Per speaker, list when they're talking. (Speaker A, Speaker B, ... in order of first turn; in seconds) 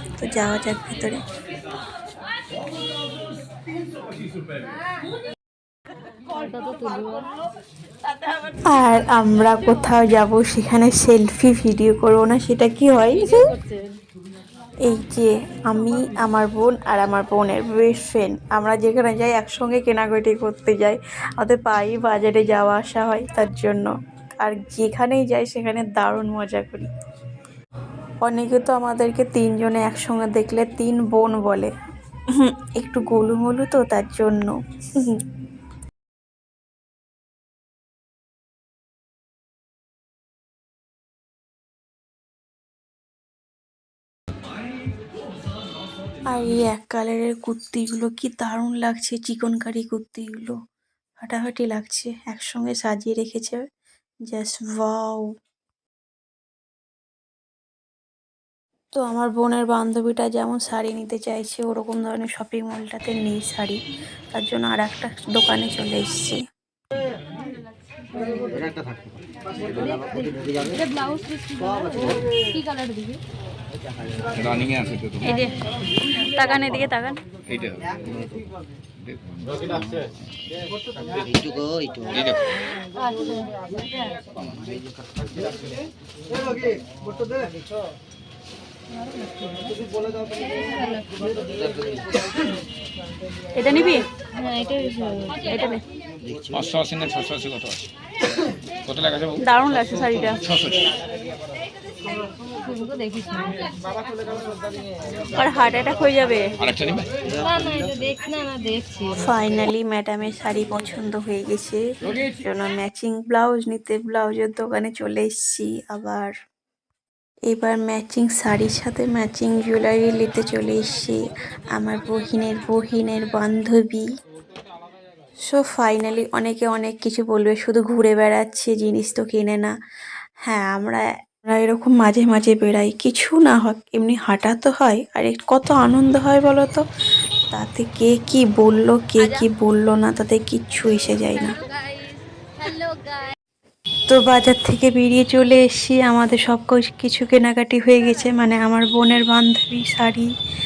Speaker A: 0.2-1.2, 8.7-13.4, 14.8-26.9, 28.2-31.7, 32.4-35.2, 46.3-50.5, 51.2-53.6, 54.3-55.3, 59.0-63.8, 64.3-66.4, 109.2-111.8, 112.4-116.3, 117.5-121.2, 121.7-124.0, 125.5-129.7, 130.5-136.8, 137.5-141.5, 144.1-150.3
Speaker B: 6.3-7.3, 13.2-14.0, 69.8-73.2, 83.0-83.5, 90.4-91.0, 94.3-95.7, 102.6-103.6, 107.3-109.2, 141.3-143.3
Speaker C: 68.5-69.2, 69.7-70.8, 71.8-72.2, 74.1-74.4, 81.1-82.3, 84.5-85.6, 91.4-92.2, 96.2-96.7
Speaker D: 74.3-75.3, 77.5-78.4, 79.0-80.0, 82.1-82.5, 96.5-97.9, 98.8-99.4, 100.4-100.9, 106.6-107.1
Speaker E: 75.2-75.6, 76.2-77.2, 93.5-94.0, 95.5-95.8, 99.4-100.4, 105.3-106.5